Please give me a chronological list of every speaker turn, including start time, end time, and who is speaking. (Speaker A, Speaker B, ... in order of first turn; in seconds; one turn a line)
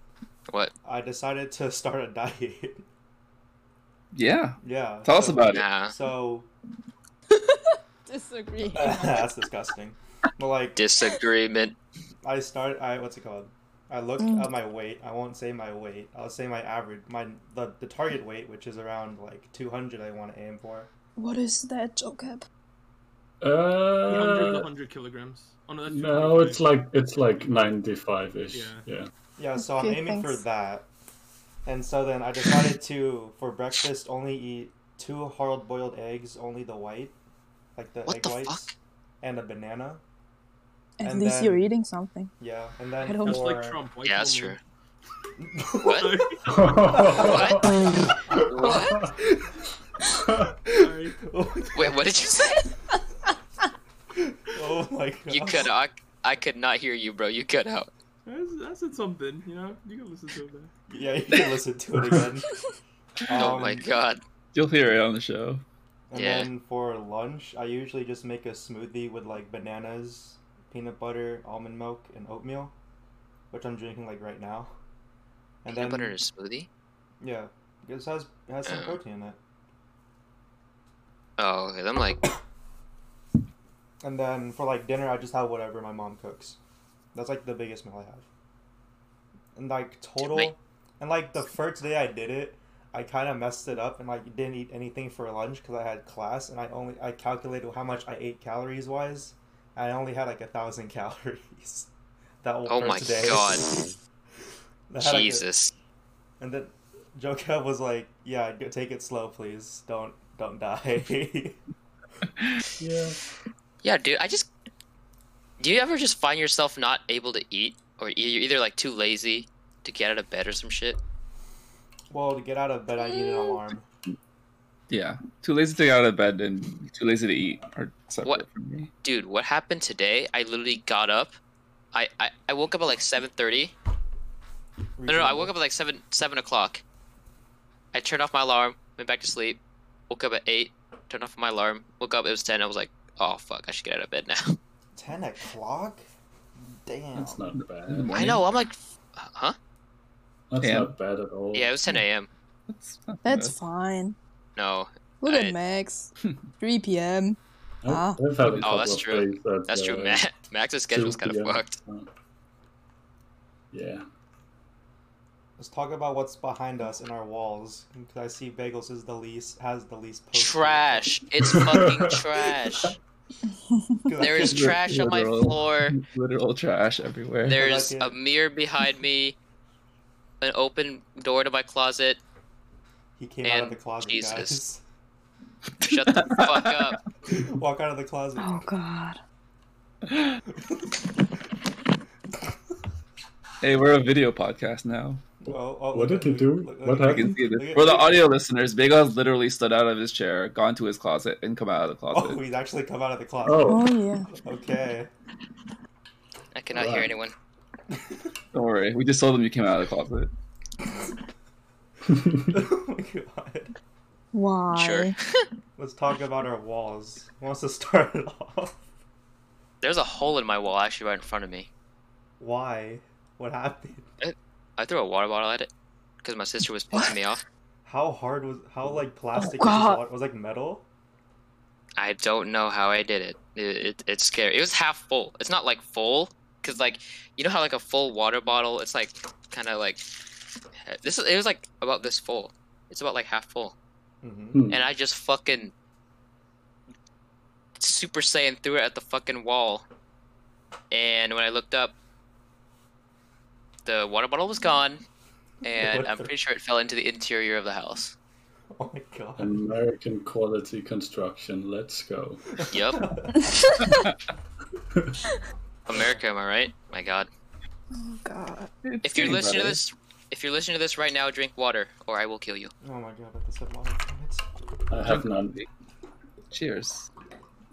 Speaker A: 0.5-0.7
Speaker B: 0.8-2.9
Speaker C: 4.1-5.7
Speaker B: 4.6-6.5
Speaker A: 5.5-5.9
Speaker D: 7.3-9.3
Speaker B: 8.6-10.8
Speaker A: 10.7-11.8
Speaker B: 12.2-20.9
Speaker D: 14.2-14.6
Speaker D: 21.2-22.4
Speaker E: 23.4-24.7
Speaker F: 24.0-26.8
Speaker E: 25.9-29.1
Speaker F: 27.4-27.6
Speaker F: 28.5-28.8
Speaker B: 29.4-30.9
Speaker D: 29.6-30.4
Speaker B: 31.6-37.1
Speaker B: 37.8-40.0
Speaker A: 38.1-38.6
Speaker D: 41.0-42.3
Speaker B: 41.0-41.7
Speaker B: 42.4-43.8
Speaker D: 43.0-43.5
Speaker F: 43.2-44.6
Speaker A: 44.0-44.6
Speaker B: 45.4-46.2
Speaker A: 45.8-46.1
Speaker F: 45.9-47.0
Speaker E: 46.5-49.1
Speaker B: 46.9-47.6
Speaker A: 47.1-47.7
Speaker B: 48.3-49.5
Speaker A: 48.3-49.0
Speaker B: 50.6-52.0
Speaker F: 50.7-51.2
Speaker A: 51.7-52.7
Speaker B: 54.1-55.7
Speaker A: 55.3-57.9
Speaker F: 58.2-60.7
Speaker B: 60.9-62.5
Speaker B: 63.2-64.0
Speaker A: 63.3-64.2
Speaker C: 64.5-65.6
Speaker B: 66.1-72.7
Speaker A: 66.1-66.5
Speaker B: 73.5-74.7
Speaker B: 75.6-76.2
Speaker A: 75.7-76.7
Speaker B: 77.2-79.4
Speaker A: 78.7-79.0
Speaker A: 81.4-82.2
Speaker B: 84.0-86.6
Speaker B: 87.1-88.3
Speaker B: 89.5-101.9
Speaker A: 90.2-90.5
Speaker B: 102.4-103.9
Speaker A: 102.7-103.7
Speaker B: 104.9-105.5
Speaker A: 105.0-105.7
Speaker B: 106.4-111.6
Speaker E: 112.8-113.2
Speaker A: 113.8-114.5
Speaker A: 115.6-121.0
Speaker B: 122.1-123.9
Speaker D: 123.0-123.6
Speaker C: 124.9-128.9
Speaker A: 129.0-131.4
Speaker A: 131.9-133.7
Speaker B: 135.0-135.5
Speaker A: 135.1-136.8
Speaker A: 137.9-144.6
Speaker B: 144.9-146.0
Speaker B: 146.7-147.4
Speaker E: 147.1-148.3
Speaker C: 147.9-148.4
Speaker A: 148.1-149.6
Speaker E: 150.5-151.7
Speaker C: 150.6-150.9
Speaker A: 151.5-152.3
Speaker C: 152.7-153.6
Speaker D: 153.2-154.2
Speaker A: 154.6-155.6
Speaker D: 155.2-158.2
Speaker E: 157.8-160.3
Speaker C: 158.4-158.8
Speaker A: 158.6-161.8
Speaker E: 160.9-162.1
Speaker E: 163.7-164.1
Speaker B: 165.6-171.2
Speaker A: 170.3-172.9
Speaker E: 171.4-172.9
Speaker D: 173.7-174.1
Speaker B: 174.1-174.8
Speaker A: 174.2-175.9
Speaker C: 174.4-177.6
Speaker A: 177.5-179.3
Speaker B: 177.5-178.2
Speaker A: 180.4-182.2
Speaker B: 183.2-184.8
Speaker A: 183.4-184.6
Speaker C: 185.8-186.9
Speaker A: 185.8-187.0
Speaker B: 187.3-188.7
Speaker D: 188.4-189.2
Speaker B: 190.5-191.0
Speaker C: 193.6-195.2
Speaker B: 195.4-198.2
Speaker E: 195.9-197.4
Speaker C: 197.1-202.4
Speaker B: 202.1-205.1
Speaker E: 203.4-203.9
Speaker D: 203.7-204.3
Speaker A: 206.5-207.3
Speaker E: 206.7-207.1
Speaker B: 207.9-208.2
Speaker C: 208.5-210.3
Speaker E: 212.1-212.4
Speaker B: 212.5-213.7
Speaker D: 214.3-215.1
Speaker A: 214.7-215.4
Speaker B: 215.8-218.9
Speaker A: 219.8-221.7
Speaker B: 222.4-224.1
Speaker A: 224.2-225.7
Speaker A: 226.2-227.4
Speaker D: 226.9-227.2
Speaker B: 227.8-230.9
Speaker D: 229.3-230.0
Speaker A: 232.0-240.0
Speaker A: 240.9-243.7
Speaker B: 244.2-244.6
Speaker E: 244.5-244.8
Speaker A: 244.7-245.7
Speaker A: 247.8-249.8
Speaker A: 250.9-251.9
Speaker A: 253.8-255.0
Speaker A: 255.6-258.1
Speaker B: 255.8-256.3
Speaker B: 258.7-259.6
Speaker E: 259.4-262.5
Speaker B: 262.6-263.5
Speaker A: 262.7-263.0
Speaker D: 263.4-264.1
Speaker C: 263.8-264.1
Speaker A: 265.9-267.3
Speaker B: 265.9-266.2
Speaker D: 267.9-268.7
Speaker C: 268.8-269.8
Speaker A: 269.0-272.7
Speaker B: 272.8-274.4
Speaker E: 274.9-275.6
Speaker C: 275.1-275.6
Speaker C: 276.5-277.1